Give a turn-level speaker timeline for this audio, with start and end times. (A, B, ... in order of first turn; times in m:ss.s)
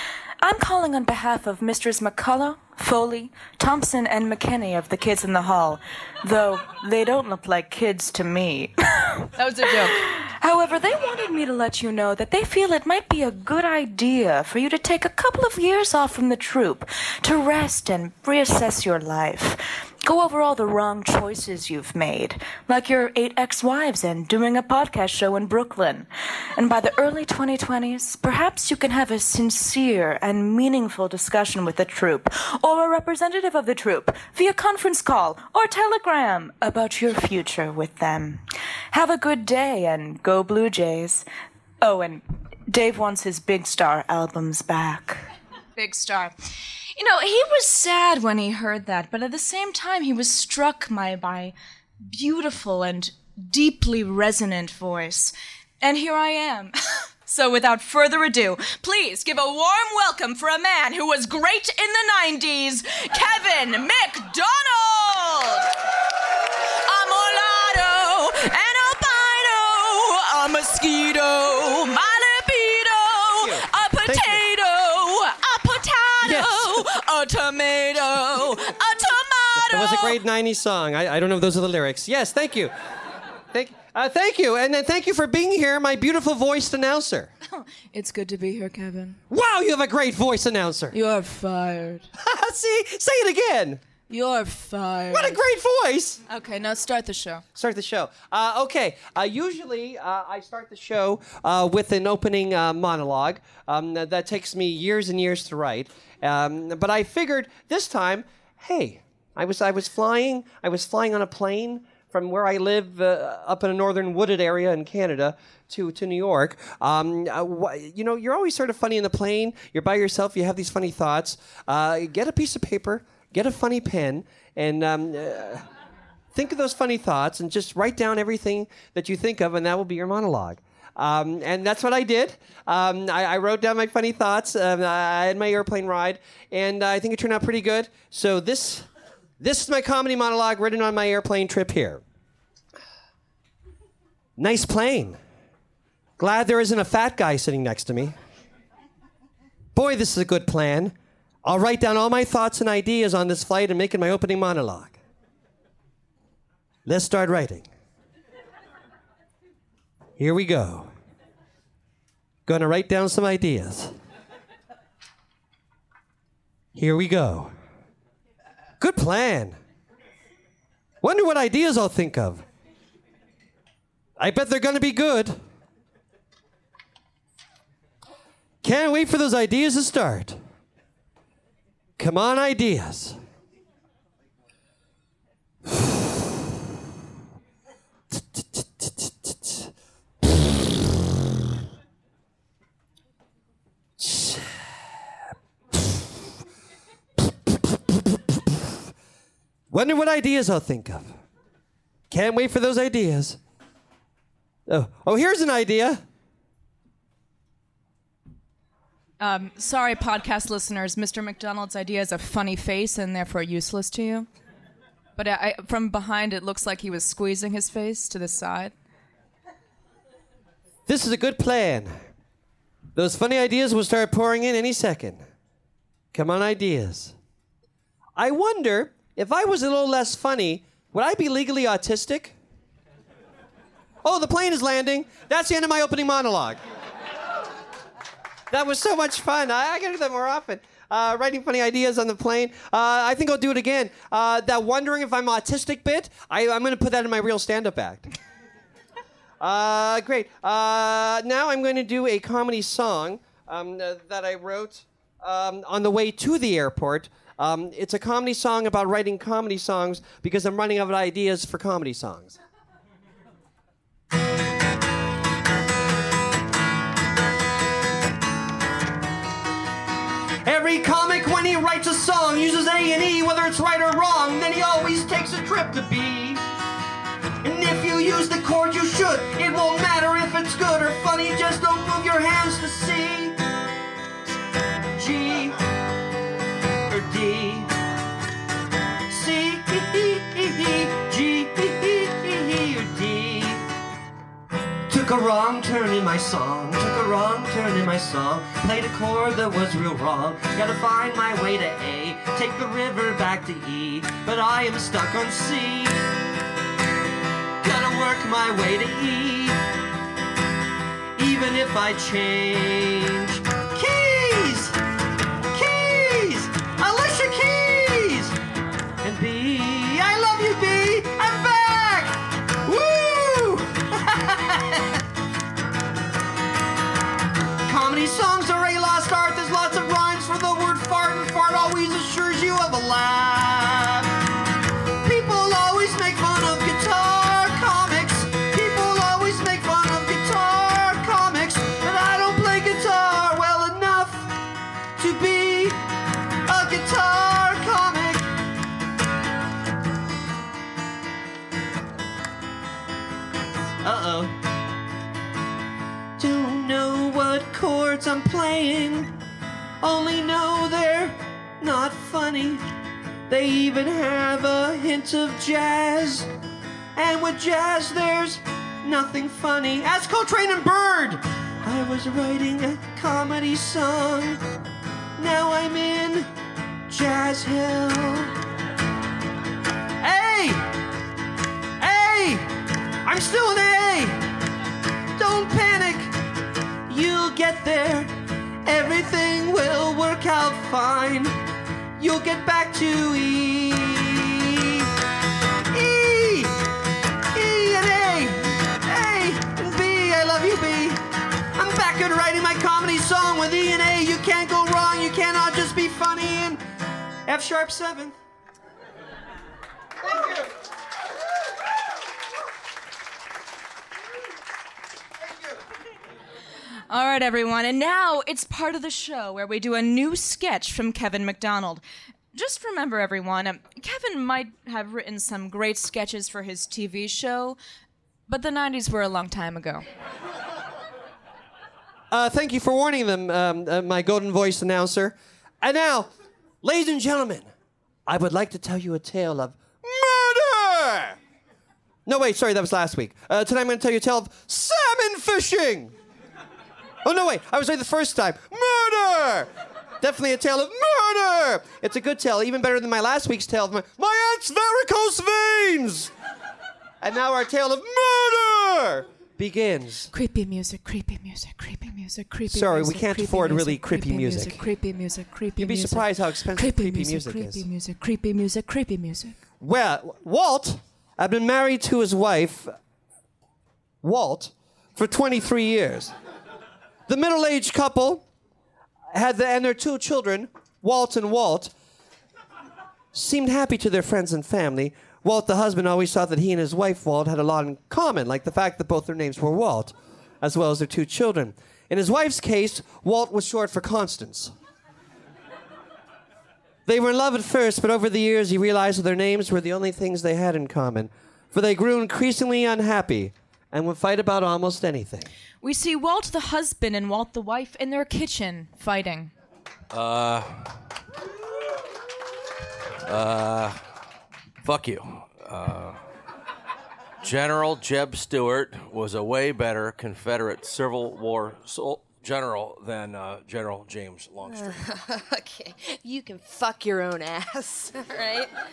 0:00.4-0:09.3 A
0:09.4-0:10.0 B
0:10.0-0:41.3 A
0:41.8-0:45.2 A
0:45.8-0:46.3 B
0:47.0-0:51.5 B
0:52.1-0:56.8 B
0:57.3-1:05.7 B
1:06.9-1:20.1 B
1:13.4-1:14.4 C
1:16.2-1:16.9 C
1:19.6-1:22.7 C
1:23.5-1:27.3 C
1:27.5-1:29.2 B
1:29.3-1:31.0 C
1:30.9-1:32.1 B
1:32.2-1:33.8 C
1:34.1-1:35.4 B
1:35.1-1:36.2 C
1:36.3-1:37.4 B
1:37.6-2:05.7 C
2:06.3-2:18.9 C
2:19.4-2:22.0 C
2:24.4-2:25.2 C
2:26.2-2:28.2 C
2:29.8-2:35.0 C
2:36.8-2:37.7 C
2:40.2-2:40.9 C
2:42.5-2:43.9 C
2:46.7-2:47.5 C
2:48.8-2:49.6 C
2:51.0-2:52.4 C
2:54.2-2:55.4 C
2:58.6-3:00.4 C
3:02.0-3:03.2 C
3:08.1-3:09.7 C
3:14.0-3:15.1 C
3:15.7-3:16.2 C
3:17.2-3:18.8 C
3:19.7-3:21.1 C
3:22.1-3:23.4 C
3:24.7-3:26.0 C
3:29.2-3:34.3 B
3:35.2-3:38.7 B
3:40.9-3:41.9 C
3:43.0-3:45.3 C
3:46.1-3:47.2 C
3:48.2-3:52.4 C
3:54.0-3:56.6 C
3:58.5-4:08.2 C
4:09.4-4:22.4 C
4:30.4-4:36.4 C
4:37.4-4:43.4 C
4:45.0-4:45.6 C
4:46.9-4:47.7 C
4:49.1-4:53.6 C
4:54.9-5:06.0 C
5:07.6-5:09.6 C
5:11.2-5:14.8 C
5:15.5-5:18.4 C
5:19.0-5:25.0 C
5:27.7-5:34.1 C
5:35.0-5:44.4 C
5:45.0-5:45.8 C
5:46.5-5:48.3 C
5:53.8-5:54.4 C
5:56.2-5:59.2 C
5:59.8-6:02.7 C
6:03.3-6:06.3 C
6:07.0-6:14.4 C
6:15.2-6:16.3 C
6:16.9-6:18.3 C
6:20.0-6:20.7 C
6:21.8-6:22.5 C
6:23.0-6:24.3 C
6:25.2-6:26.2 C
6:26.9-6:31.4 C
6:32.0-6:34.9 C
6:35.7-6:36.6 C
6:37.3-6:41.0 C
6:41.6-6:46.6 C
6:47.3-6:48.2 C
6:50.0-6:50.5 C
6:56.9-7:01.8 B
7:02.3-7:07.6 B
7:08.3-7:09.8 B
7:12.1-7:16.1 C
7:16.6-7:17.5 C
7:18.1-7:21.2 C
7:22.1-7:25.9 C
7:27.0-7:36.1 C
7:37.0-7:40.1 C
7:40.1-7:49.4 B
7:42.5-7:44.7 C
7:45.6-7:47.7 C
7:49.6-7:52.8 C
7:54.0-7:56.1 C
7:57.1-7:58.2 C
7:59.1-8:01.7 C
8:03.1-8:14.5 C
8:16.9-8:25.3 C
8:25.6-8:29.3 B
8:29.9-8:30.8 D
8:33.0-8:33.8 D
8:34.6-8:36.0 D
8:37.2-8:44.8 D
8:44.5-8:48.5 E